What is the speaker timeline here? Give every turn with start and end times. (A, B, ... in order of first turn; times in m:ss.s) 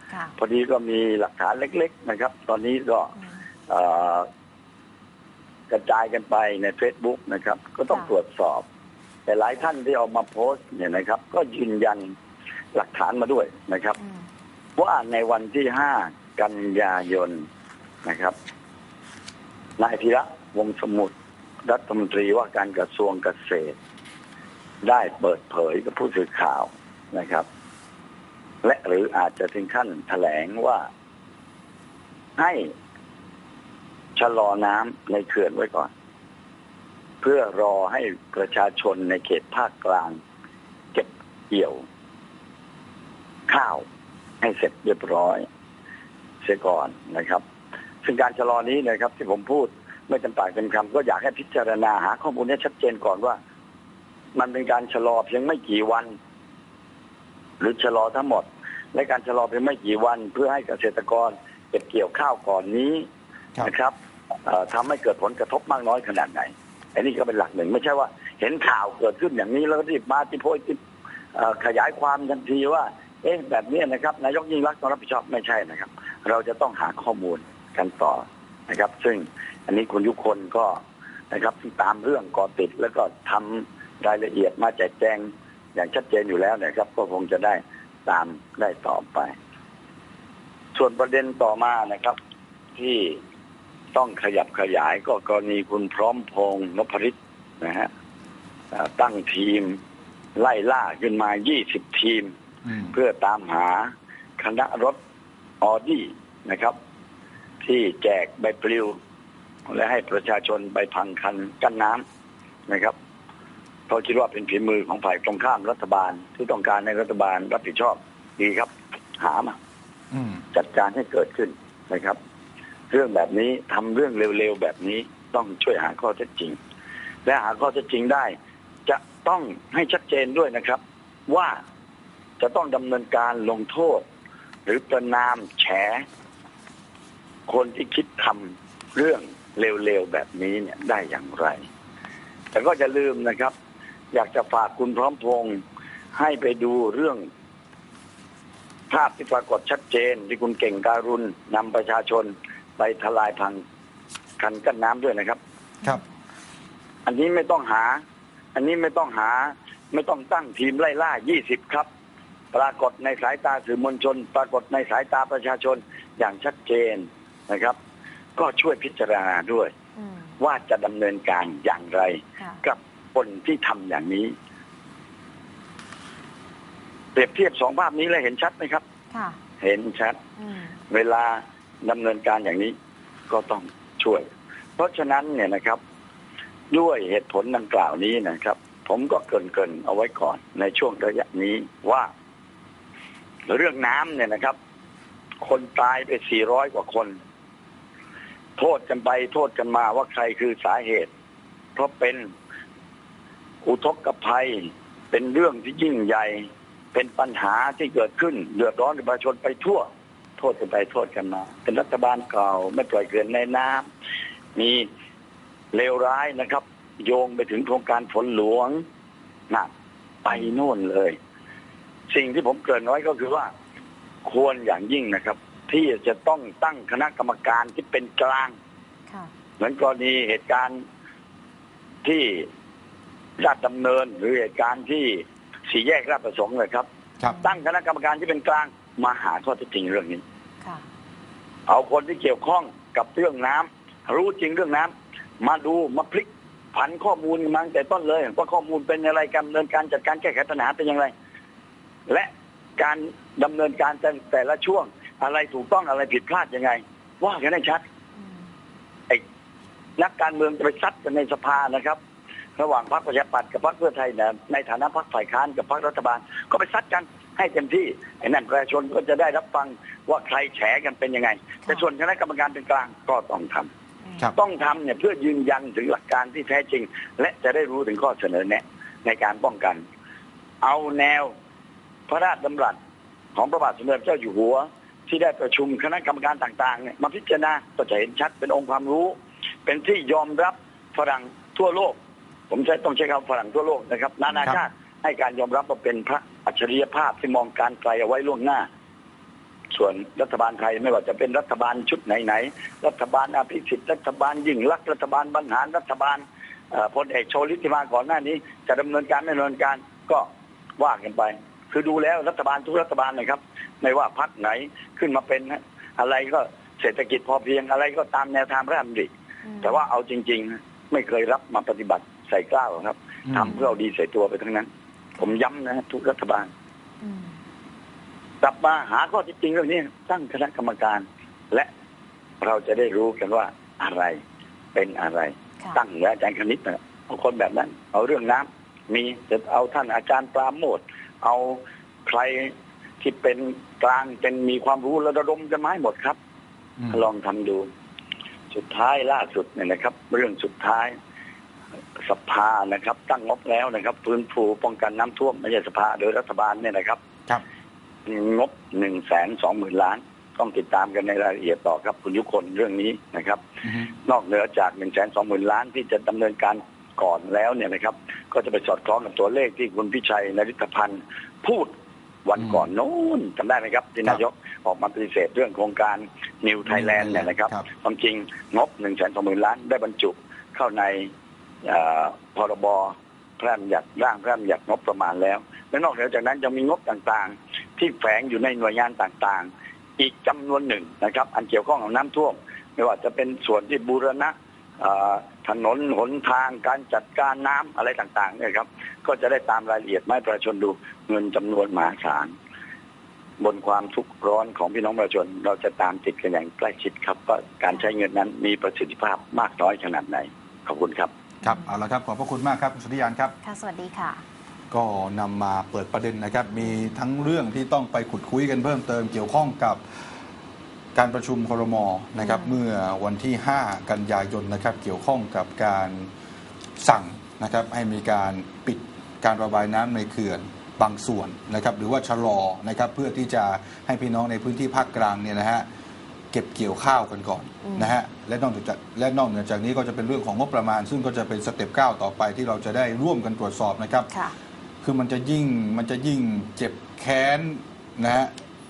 0:00.4-0:03.2 A
0:03.7-0:04.3 A
0:05.7-0:08.6 A
0:09.2-0:12.2 A
0:12.7-0:14.0 A
0:14.0-0:14.3 B
0:14.8-0:17.4 A
0:18.0-0:18.3 A
0:19.8-0:21.1 A
0:21.6-0:23.8 A
0:24.8-0:27.5 A
0:28.6-0:30.9 A
0:32.4-0:32.7 A
0:34.2-0:35.9 A
0:37.2-0:40.2 A
0:40.9-0:41.8 A
0:43.5-0:43.8 A
0:44.4-0:45.5 A
0:46.4-0:47.4 A
0:48.0-0:53.4 A
0:54.3-0:56.1 A
0:57.6-1:03.1 A
1:03.6-1:03.9 A
1:04.4-1:10.8 A
1:11.3-1:29.3 A
1:30.7-1:32.2 A
1:32.8-1:33.2 A
1:33.9-1:37.9 A
1:38.7-1:39.8 A
1:40.4-1:42.3 A
1:42.7-1:42.9 C
1:42.9-1:45.0 A
1:45.6-1:46.7 A
1:47.6-1:49.0 A
1:49.7-1:52.0 A
1:52.7-1:53.0 A
1:53.9-1:59.6 A
2:00.1-2:00.4 C
2:00.5-2:02.2 A
2:02.9-2:06.6 A
2:07.3-2:08.3 A
2:08.8-2:11.6 A
2:12.4-2:14.0 A
2:14.7-2:16.0 A
2:17.5-2:21.6 A
2:22.5-2:23.5 A
2:24.1-2:25.6 A
2:26.1-2:27.3 A
2:28.9-2:33.6 A
2:34.4-2:35.4 A
2:37.0-2:38.0 A
2:38.5-2:41.9 A
2:42.5-2:47.8 A
2:48.4-2:49.7 A
2:50.0-2:50.4 B
2:50.4-2:54.3 A
2:57.2-2:58.8 A
2:59.1-2:59.4 B
2:59.6-3:00.2 A
3:00.4-3:00.8 B
3:00.9-3:02.7 A
3:03.3-3:04.3 A
3:04.8-3:05.8 A
3:06.7-3:12.1 A
3:13.5-3:14.6 A
3:15.4-3:17.2 A
3:18.6-3:21.1 A
3:21.8-3:22.3 A
3:23.6-3:29.8 A
3:30.4-3:33.9 A
3:34.5-3:34.9 A
3:35.7-3:38.8 A
3:40.2-3:41.2 A
3:42.1-3:43.5 A
3:44.2-3:48.5 A
3:49.6-3:50.8 A
3:52.0-3:52.5 A
3:53.4-3:56.9 A
3:57.4-4:00.2 A
4:01.7-4:11.1 A
4:12.1-4:17.8 A
4:20.0-4:22.0 A
4:22.6-4:33.7 A
4:34.4-4:39.8 A
4:40.6-4:41.3 A
4:42.1-4:42.8 A
4:43.4-4:52.0 A
4:52.5-4:58.6 A
4:59.7-5:19.1 A
5:19.4-5:19.8 B
5:19.6-5:26.5 A
5:23.4-5:23.8 B
5:27.0-5:27.4 B
5:28.4-5:31.7 A
5:32.4-5:34.2 A
5:34.7-5:46.2 A
5:46.8-5:47.0 C
5:46.9-5:47.7 A
5:48.5-5:50.9 A
5:52.0-5:57.0 A
5:58.0-6:11.7 A
6:12.2-6:21.1 A
6:16.7-6:17.6 C
6:21.6-6:42.3 A
6:43.4-6:51.1 A
6:51.4-6:51.7 B
6:51.4-6:53.4 C
6:53.4-6:54.2 B
6:54.7-6:59.8 C
7:00.9-7:06.1 C
7:02.2-7:02.6 B
7:06.8-7:15.6 C
7:16.3-7:24.1 C
7:17.6-7:17.9 B
7:24.8-7:28.3 C